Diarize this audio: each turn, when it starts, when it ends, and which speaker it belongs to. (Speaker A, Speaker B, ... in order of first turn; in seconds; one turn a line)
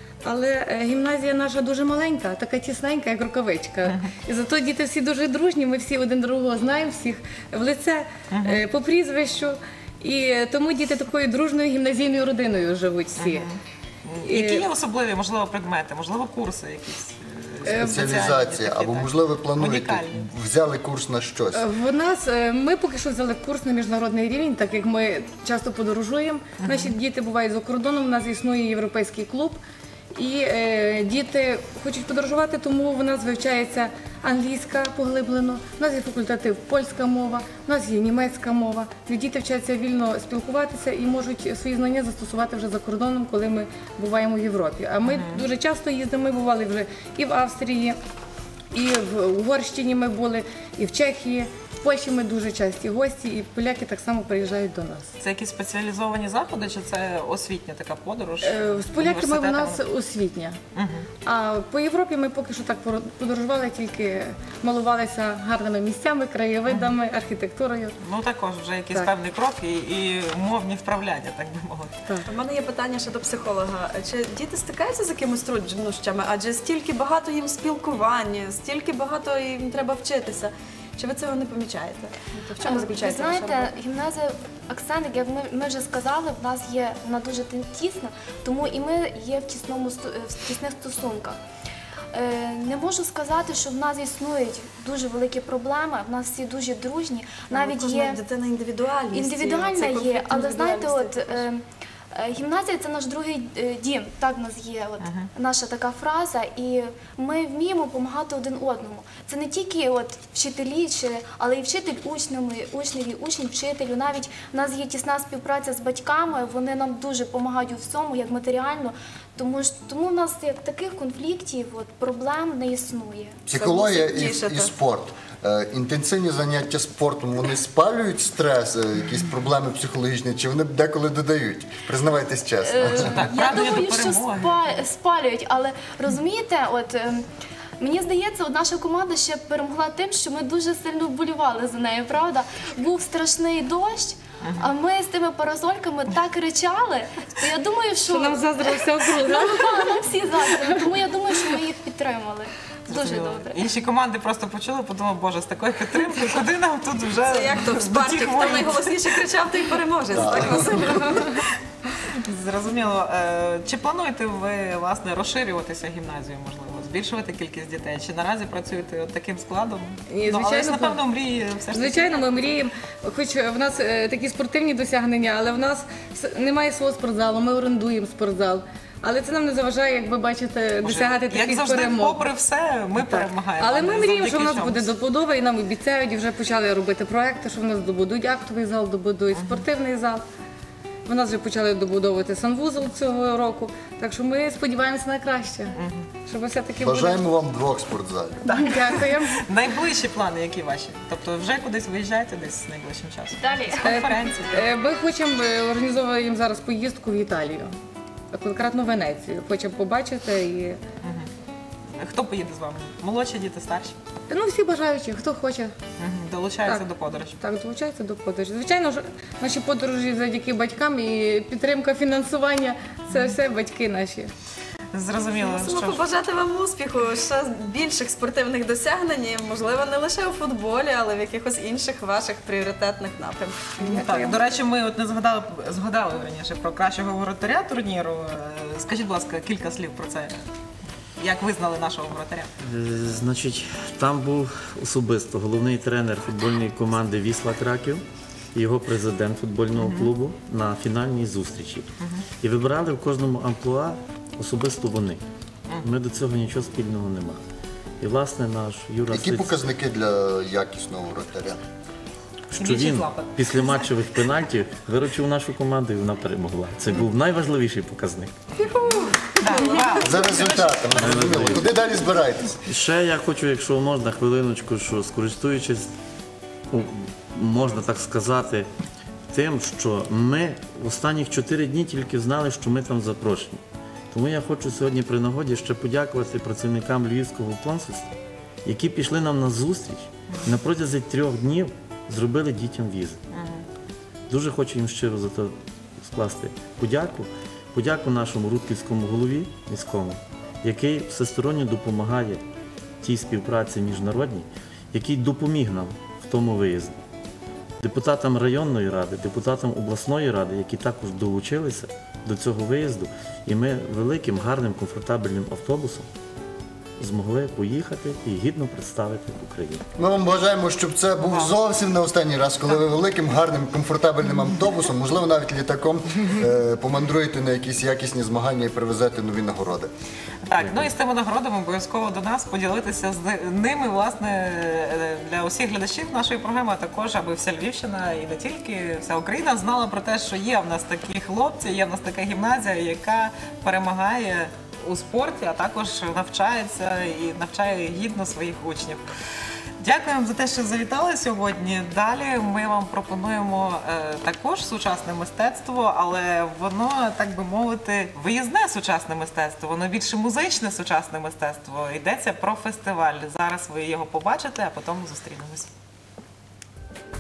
Speaker A: 0.2-13.5
Speaker B: 8.3-8.6
Speaker B: 13.2-20.3
Speaker A: 14.2-14.7
Speaker A: 17.6-18.3
Speaker C: 17.8-21.6
Speaker A: 21.5-29.6
Speaker B: 26.6-26.9
Speaker A: 30.1-48.0
Speaker B: 45.0-45.4
Speaker A: 48.7-55.1
Speaker B: 55.2-59.8
Speaker A: 58.4-60.6
Speaker B: 60.8-61.1
Speaker A: 61.2-67.9
Speaker B: 68.0-72.0
Speaker D: 72.2-83.8
Speaker E: 82.6-91.4
Speaker E: 92.1-98.2
Speaker D: 97.5-101.5
Speaker E: 99.1-123.4
Speaker B: 105.0-105.3
Speaker C: 123.5-133.2
Speaker D: 123.5-124.8
Speaker E: 132.6-137.3
Speaker B: 133.1-134.6
Speaker E: 137.8-153.6
Speaker B: 144.4-144.7
Speaker A: 148.1-150.7
Speaker B: 152.9-160.5
Speaker D: 157.2-161.4
Speaker C: 160.1-161.0
Speaker B: 162.2-172.3
Speaker A: 170.1-171.0
Speaker A: 171.7-182.2
Speaker B: 180.8-184.9
Speaker A: 183.0-190.2
Speaker B: 189.3-189.6
Speaker A: 191.1-195.7
Speaker B: 195.8-196.1
Speaker A: 196.3-197.2
Speaker C: 196.8-198.4
Speaker B: 198.5-204.6
Speaker A: 198.5-199.4
Speaker E: 203.4-204.1
Speaker A: 203.8-207.8
Speaker A: 208.3-210.8
Speaker B: 211.0-211.3
Speaker B: 212.0-214.0
Speaker A: 214.3-215.8
Speaker B: 216.0-217.4
Speaker A: 217.4-224.3
Speaker B: 224.9-226.1
Speaker D: 225.3-234.3
Speaker B: 233.8-240.4
Speaker B: 241.2-242.5
Speaker F: 242.6-248.0
Speaker F: 248.5-251.9
Speaker B: 249.7-250.1
Speaker F: 252.4-255.2
Speaker F: 255.8-257.4
Speaker F: 258.0-259.6
Speaker C: 259.1-261.6
Speaker F: 262.5-268.3
Speaker B: 262.6-263.9
Speaker D: 268.6-270.1
Speaker B: 269.4-271.3
Speaker C: 270.0-272.6
Speaker F: 270.9-271.7
Speaker F: 272.6-275.9
Speaker F: 276.7-278.7
Speaker F: 279.3-283.6
Speaker F: 284.1-288.1
Speaker F: 288.6-293.2
Speaker B: 293.3-293.6
Speaker F: 294.3-302.4
Speaker F: 303.0-307.0
Speaker F: 307.8-316.1
Speaker F: 317.0-319.8
Speaker C: 320.0-329.9
Speaker B: 321.2-321.5
Speaker B: 330.5-349.1
Speaker F: 330.6-330.9
Speaker B: 349.8-365.7